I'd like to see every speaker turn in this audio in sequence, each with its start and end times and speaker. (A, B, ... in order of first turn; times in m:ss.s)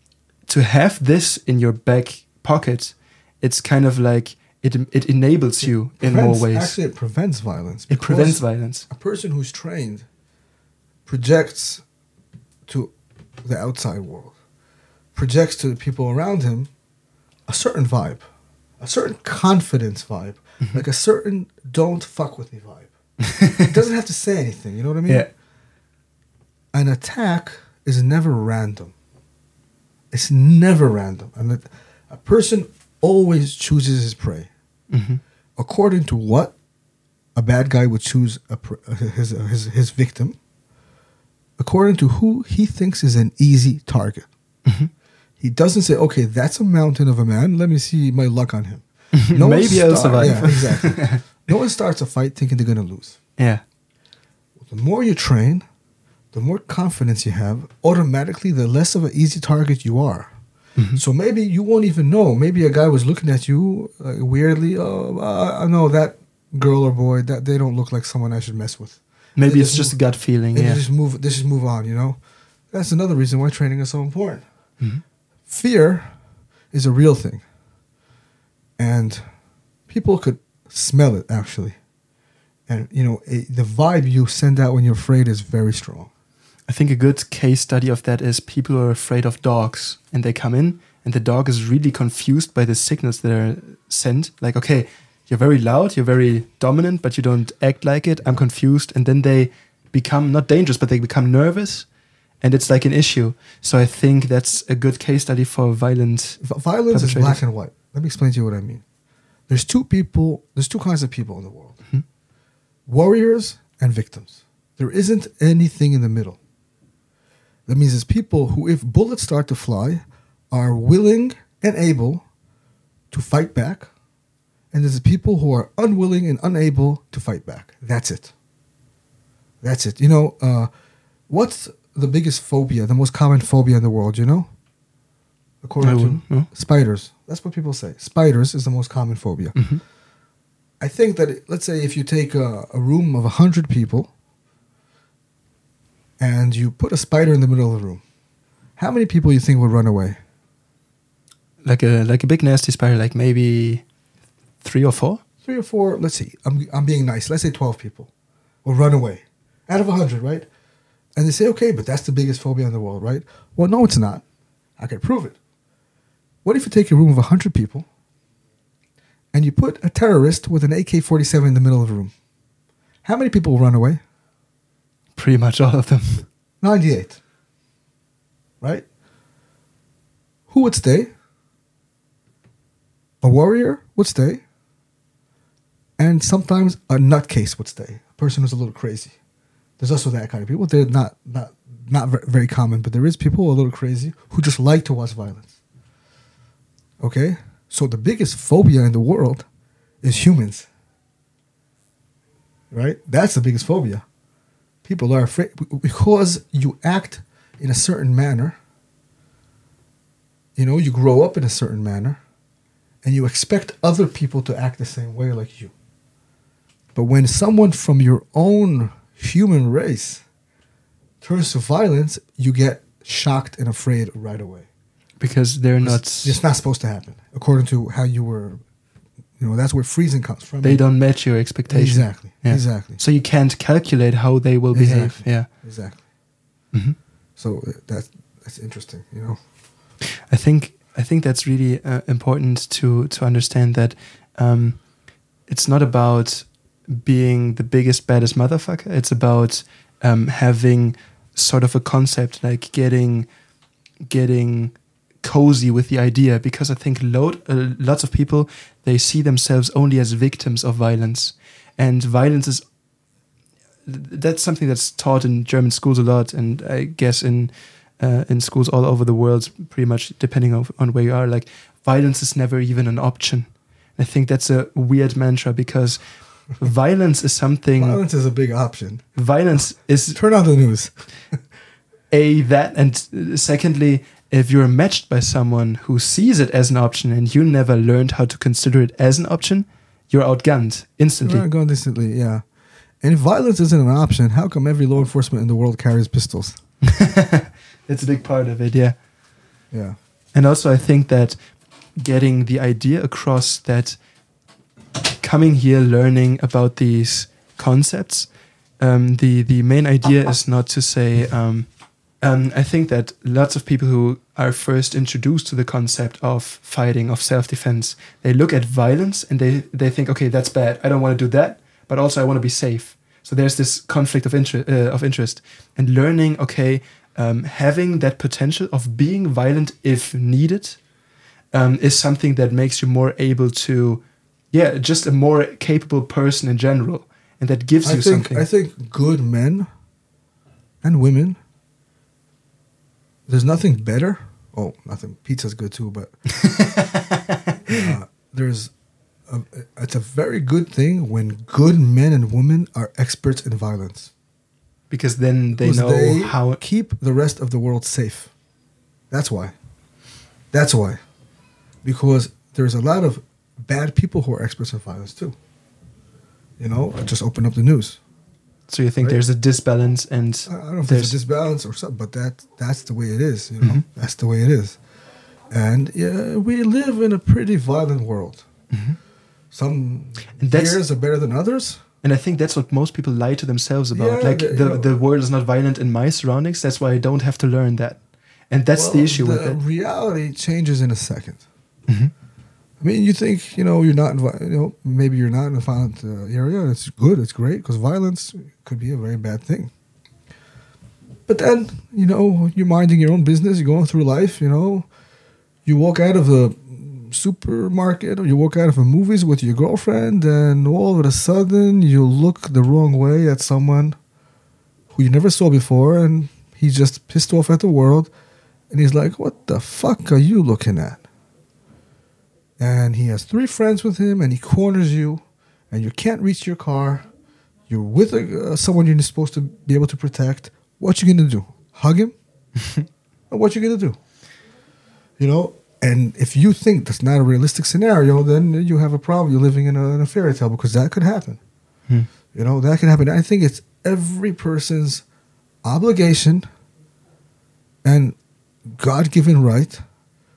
0:00.5-0:06.7 A
0:05.6-0:10.1 B
0:07.9-0:08.9 A
0:11.1-0:11.8 B
0:12.7-0:12.9 B
0:13.4-0:14.3 B
0:15.1-0:16.7 B
0:17.5-0:18.2 B
0:18.8-0:22.9 B
0:23.2-0:23.7 A
0:23.6-0:25.3 B
0:26.7-0:28.9 B
0:30.1-0:34.5 B
0:34.9-0:35.2 A
0:35.6-0:36.6 B
0:37.4-0:40.4 B
0:41.6-0:44.3 B
0:44.6-0:44.9 A
0:45.4-0:53.2 B
0:49.2-0:51.2 A
0:54.6-0:55.6 B
0:56.3-1:00.3 B
1:00.8-1:01.0 A
1:01.0-1:10.0 B
1:09.4-1:10.8 A
1:10.5-1:12.2 B
1:12.7-1:14.4 B
1:15.5-1:16.1 B
1:16.7-1:17.4 B
1:18.8-1:19.3 B
1:19.9-1:21.8 B
1:22.7-1:26.1 B
1:26.7-1:41.9 A
1:42.4-1:47.4 A
1:46.4-1:48.8 B
1:49.5-1:51.8 B
1:52.9-1:56.4 B
1:57.7-2:02.2 B
2:03.1-2:03.9 B
2:04.7-2:08.3 B
2:09.6-2:10.7 B
2:11.3-2:14.5 B
2:15.6-2:19.6 B
2:15.8-2:16.5 A
2:19.6-2:19.8 A
2:20.8-2:24.1 B
2:26.2-2:28.0 B
2:28.8-2:30.2 B
2:31.6-2:33.8 A
2:34.6-2:35.2 A
2:35.4-2:38.1 B
2:38.6-2:40.5 B
2:41.1-2:44.2 B
2:44.8-2:45.4 B
2:46.4-2:47.9 B
2:49.3-2:52.1 B
2:53.0-2:54.0 B
2:55.2-2:56.3 A
2:56.6-2:57.2 B
2:58.6-2:58.9 B
3:00.5-3:01.1 B
3:03.2-3:04.4 B
3:06.0-3:09.1 B
3:09.8-3:15.5 B
3:17.0-3:19.4 B
3:20.0-3:20.7 B
3:22.7-3:24.0 B
3:24.8-3:28.6 B
3:30.6-3:32.2 B
3:33.0-3:35.7 B
3:37.0-3:40.2 B
3:41.2-3:44.7 B
3:45.2-3:46.4 A
3:45.8-3:48.6 B
3:49.4-3:50.8 B
3:50.6-3:55.5 A
3:51.7-3:53.0 B
3:54.7-3:56.0 B
3:57.4-3:59.4 B
4:00.3-4:04.8 A
4:05.5-4:13.3 A
4:14.0-4:22.6 A
4:23.9-4:38.0 A
4:37.8-4:39.0 B
4:39.2-4:40.2 A
4:40.1-4:41.4 B
4:42.1-4:51.4 A
4:51.2-4:52.4 B
4:53.0-4:56.6 B
4:56.8-4:59.0 A
4:59.7-5:00.0 B
5:00.3-5:01.4 A
5:02.0-5:04.0 A
5:05.2-5:08.3 A
5:08.8-5:11.7 A
5:12.2-5:30.8 A
5:31.5-5:38.4 A
5:37.8-5:39.7 B
5:40.8-5:41.4 B
5:43.3-5:46.1 B
5:46.4-5:47.8 A
5:47.7-5:48.7 B
5:49.3-5:54.1 B
5:54.9-5:56.6 A
5:55.6-5:58.3 B
5:59.1-5:59.5 B
6:00.5-6:01.0 B
6:01.8-6:05.4 B
6:06.6-6:08.0 B
6:08.7-6:11.1 A
6:10.5-6:14.8 B
6:15.5-6:18.4 B
6:18.7-6:19.0 A
6:19.5-6:21.8 B
6:20.4-6:20.8 A
6:22.0-6:29.6 A
6:23.9-6:24.9 B
6:28.7-6:31.4 B
6:32.8-6:39.7 B
6:41.3-6:44.9 B
6:45.6-6:54.0 B
6:54.9-6:58.1 B
6:58.7-7:01.0 B
7:02.6-7:07.1 B
7:07.7-7:12.1 B
7:13.3-7:14.0 B
7:15.2-7:21.4 B
7:22.3-7:25.0 B
7:25.6-7:26.4 B
7:27.8-7:28.2 B
7:28.7-7:29.8 B